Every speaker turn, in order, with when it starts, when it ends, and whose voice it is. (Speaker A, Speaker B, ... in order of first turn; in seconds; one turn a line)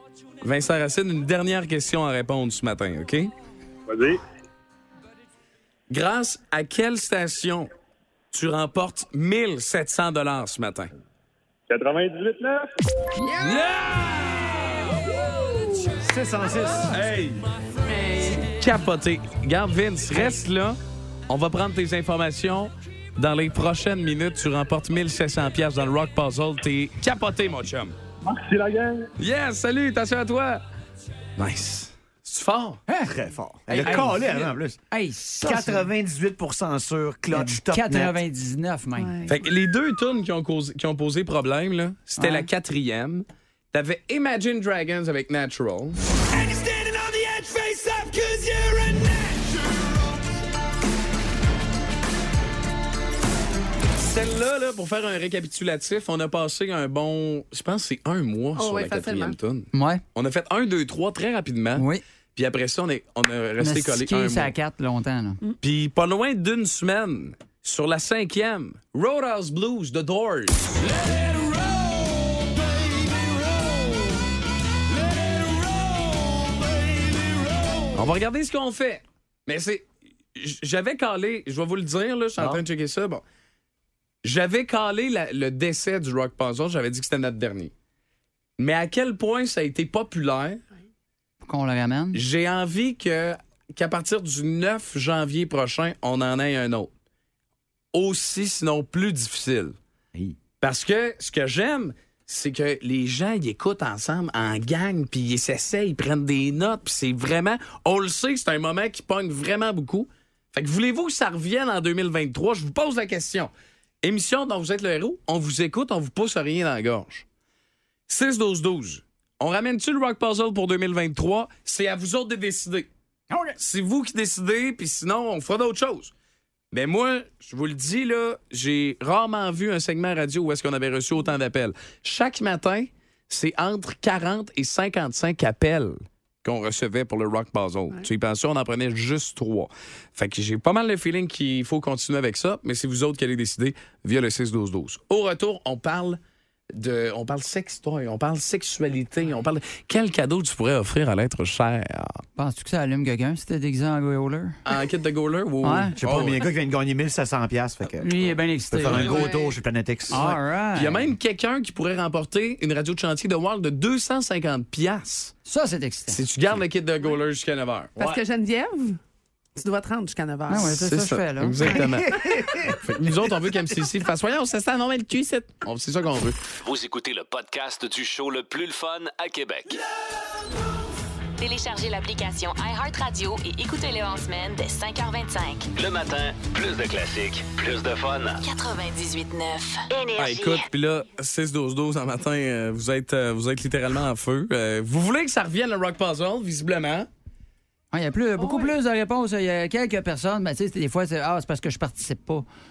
Speaker A: 0.4-3.3
Speaker B: 3.9-4.2
Speaker A: 5.9-7.7
Speaker A: 8.3-10.9
Speaker B: 11.7-12.7
Speaker A: 13.4-15.1
Speaker C: 16.0-17.2
Speaker A: 16.9-17.4
Speaker D: 17.9-18.5
Speaker A: 18.4-20.8
Speaker A: 21.3-27.9
Speaker B: 28.2-29.1
Speaker A: 29.2-30.6
Speaker A: 31.4-32.8
Speaker C: 33.0-34.8
Speaker A: 33.7-34.1
Speaker E: 33.8-35.9
Speaker C: 35.4-38.2
Speaker E: 37.3-39.2
Speaker D: 39.0-39.3
Speaker A: 39.3-46.0
Speaker E: 42.2-42.5
Speaker C: 46.5-49.2
Speaker A: 54.0-64.5
Speaker D: 58.6-59.4
Speaker E: 59.7-60.0
Speaker E: 61.8-62.0
Speaker E: 63.6-65.4
Speaker A: 65.6-71.2
Speaker A: 77.9-83.2
Speaker C: 82.4-82.6
Speaker A: 84.2-87.7
Speaker A: 88.6-90.6
Speaker E: 91.4-92.2
Speaker A: 92.1-96.9
Speaker A: 97.9-99.8
Speaker A: 100.6-113.5
Speaker A: 114.0-117.2
Speaker A: 118.1-122.9
Speaker E: 123.3-123.6
Speaker A: 123.6-126.1
Speaker A: 126.7-146.2
Speaker A: 146.7-152.2
Speaker E: 152.4-154.6
Speaker A: 154.7-156.4
Speaker E: 155.6-155.9
Speaker C: 156.0-158.1
Speaker E: 158.0-159.1
Speaker C: 158.7-160.3
Speaker D: 159.0-159.6
Speaker E: 160.1-161.0
Speaker A: 160.2-165.3
Speaker E: 165.5-166.2
Speaker A: 166.1-167.9
Speaker D: 168.0-169.0
Speaker D: 169.6-170.8
Speaker E: 170.5-171.8
Speaker A: 170.6-176.4
Speaker C: 171.7-173.3
Speaker F: 176.6-179.8
Speaker G: 181.4-185.7
Speaker F: 185.8-188.4
Speaker G: 188.4-190.7
Speaker A: 190.2-197.1
Speaker E: 197.9-202.5
Speaker D: 198.4-198.8